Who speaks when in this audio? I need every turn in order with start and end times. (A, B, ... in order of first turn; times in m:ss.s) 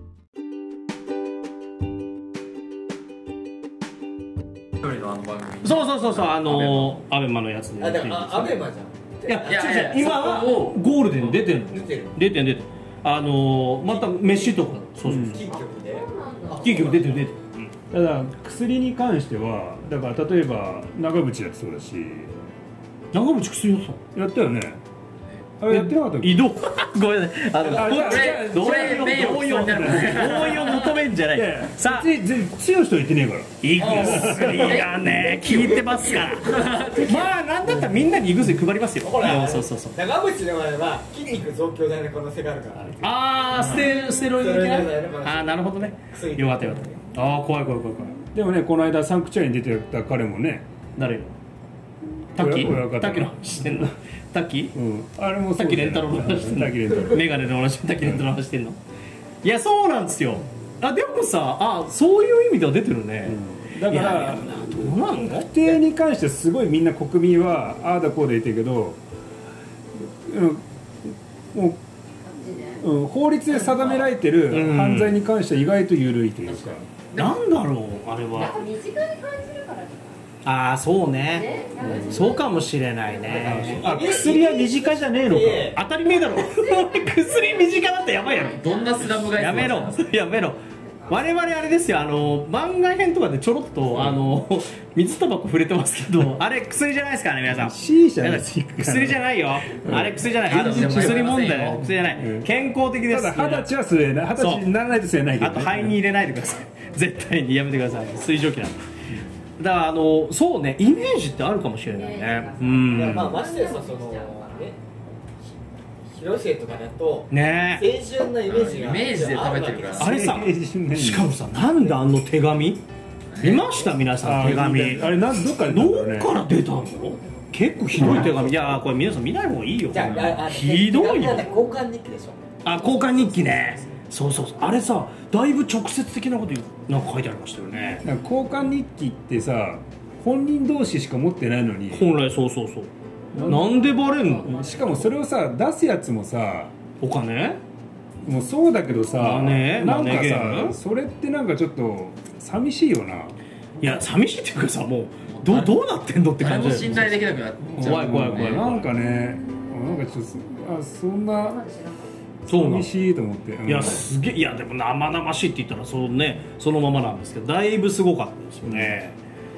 0:04.8-0:07.0 A
0:05.6-0:08.6 B
0:07.8-0:09.6 C
0:09.2-0:15.4 B
0:09.4-0:10.9 A
0:11.1-0:12.2 C
0:13.8-0:17.2 C
0:15.0-0:15.5 D
0:15.5-0:17.0 E
0:16.6-0:17.7 B
0:17.9-0:22.3 D
0:23.1-0:24.0 B
0:24.1-0:24.8 D
0:25.6-0:26.4 D
0:25.7-0:32.1 B
0:27.6-0:31.0 A
0:27.7-0:30.5 D
0:31.3-0:34.8 D
0:33.6-0:40.0 B
0:33.8-0:37.3 A
0:36.4-0:37.2 C
0:39.0-0:47.0 C
0:43.0-0:48.2 B
0:43.5-0:43.8 A
0:48.3-0:50.7 D
0:51.0-0:51.4 B
0:52.3-0:53.9 D
0:52.3-0:54.8 B
0:54.7-0:57.3 D
0:55.6-0:58.8 B
0:58.0-0:58.3 D
0:59.4-1:05.8 B
1:03.2-1:09.0 D
1:10.0-1:11.8 D
1:12.2-1:12.8 E
1:12.8-1:16.8 D
1:14.5-1:15.2 B
1:16.5-1:16.8 A
1:17.1-1:18.6 B
1:18.3-1:20.2 E
1:20.4-1:24.2 B
1:21.3-1:22.7 E
1:23.2-1:23.5 E
1:23.4-1:25.8 C
1:23.5-1:25.8 D
1:25.7-1:28.6 B
1:26.2-1:29.5 E
1:28.4-1:30.1 A
1:29.3-1:43.7 B
1:31.0-1:31.7 E
1:33.9-1:34.2 D
1:37.6-1:41.4 D
1:40.4-1:41.9 A
1:42.0-1:46.0 D
1:44.4-1:44.7 B
1:45.4-1:48.8 B
1:46.7-1:47.0 E
1:47.9-1:48.2 E
1:49.6-1:53.4 B
1:51.9-1:54.7 E
1:52.8-1:54.8 C
1:56.0-2:00.1 C
1:57.3-1:57.9 B
1:58.4-2:00.2 A
2:00.0-2:01.3 D
2:00.0-2:02.8 B
2:01.8-2:02.0 C
2:03.3-2:03.7 A
2:03.4-2:11.5 B
2:04.2-2:06.3 D
2:08.0-2:08.5 D
2:09.9-2:13.6 C
2:12.6-2:18.0 B
2:18.0-2:22.1 D
2:21.9-2:22.9 B
2:23.3-2:23.9 D
2:23.4-2:25.0 B
2:24.4-2:26.7 D
2:27.0-2:27.6 B
2:28.2-2:33.3 D
2:29.2-2:30.8 B
2:33.8-2:37.1 B
2:35.3-2:35.8 A
2:36.4-2:38.8 A
2:37.7-2:41.6 D
2:37.8-2:38.9 B
2:41.4-2:42.1 E
2:42.4-2:44.1 D
2:42.5-2:42.9 B
2:43.6-2:49.2 B
2:48.6-2:49.0 D